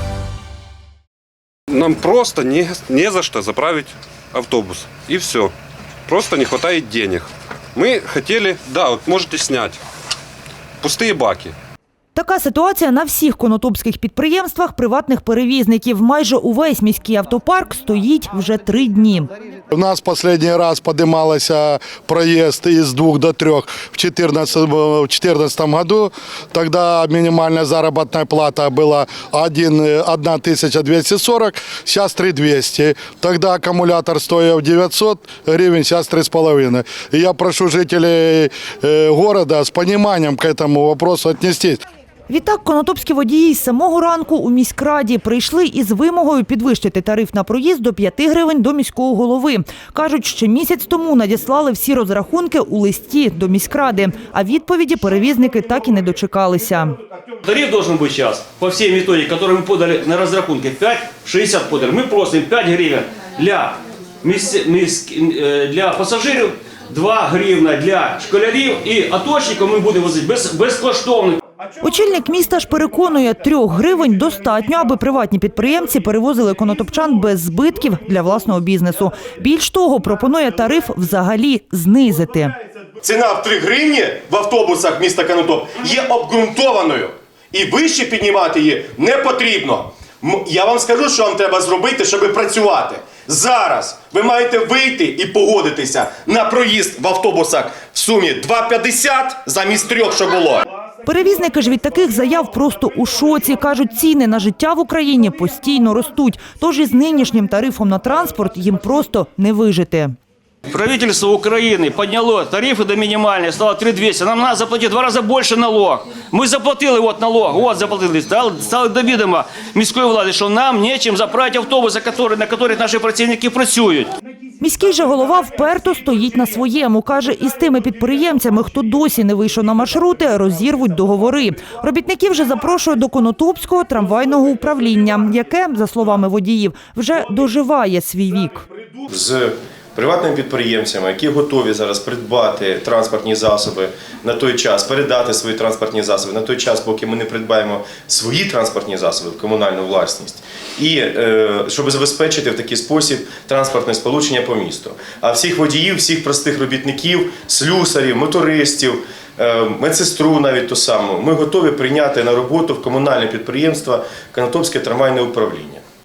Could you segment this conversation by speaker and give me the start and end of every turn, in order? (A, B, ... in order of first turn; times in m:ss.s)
0:01.7-0:05.5 A
0:06.1-0:09.8 A
0:10.8-0:11.6 A
0:12.2-0:19.3 B
0:19.7-0:41.8 C
0:42.3-0:57.0 B
0:57.4-1:11.4 D
1:11.8-1:22.6 B
1:23.0-1:40.6 E
1:41.1-1:50.2 B
1:50.7-2:04.1 D
2:04.6-2:18.7 B
2:19.1-2:45.8 E